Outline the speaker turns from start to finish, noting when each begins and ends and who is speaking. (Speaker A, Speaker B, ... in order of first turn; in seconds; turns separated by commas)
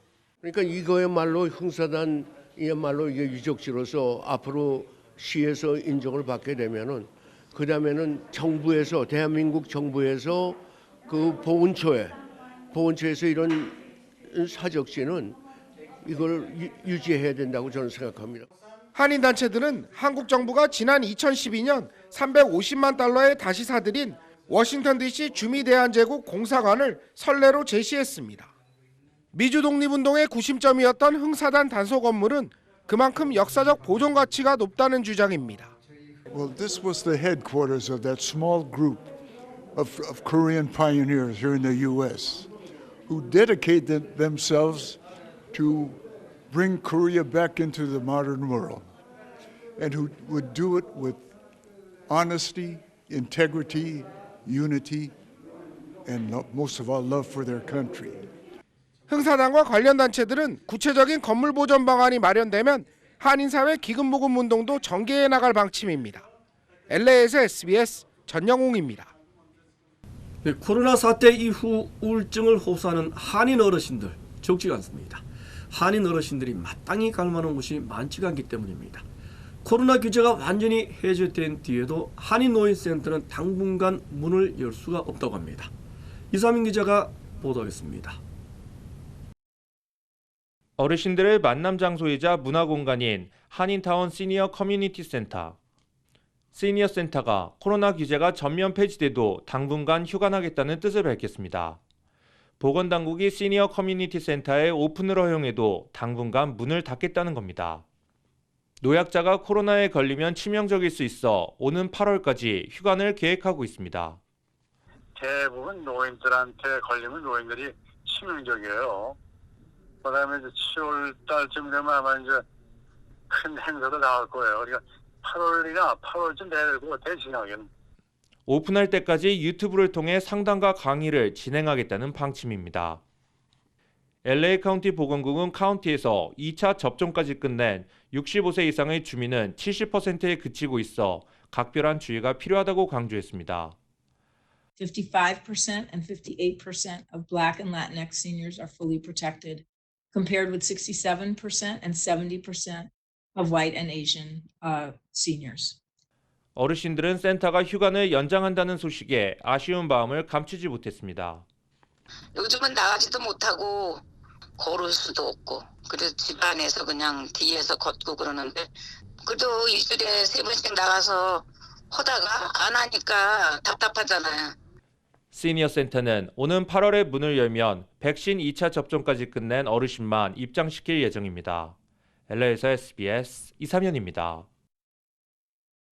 Speaker A: 0.4-12.2, Speaker A: 12.7-15.4, Speaker A: 16.0-18.5, Speaker B: 18.9-28.5, Speaker B: 29.3-35.7, Speaker C: 36.3-39.1, Speaker C: 39.7-42.5, Speaker C: 43.1-45.0, Speaker C: 45.5-48.9, Speaker C: 49.8-51.3, Speaker C: 52.1-55.1, Speaker C: 56.0-58.3, Speaker B: 59.1-66.3, Speaker B: 66.9-69.1, Speaker D: 70.4-79.0, Speaker D: 79.6-85.7, Speaker D: 86.3-88.2, Speaker E: 90.8-95.6, Speaker E: 96.5-101.8, Speaker E: 102.6-107.8, Speaker E: 108.8-114.2, Speaker F: 115.2-119.2, Speaker F: 120.0-122.4, Speaker F: 123.3-127.7, Speaker E: 128.4-133.0, Speaker E: 134.2-143.7, Speaker G: 144.8-155.8, Speaker E: 156.6-161.4, Speaker H: 162.3-164.0, Speaker H: 164.6-168.7, Speaker H: 169.2-174.5, Speaker E: 175.3-181.8, Speaker E: 182.3-184.4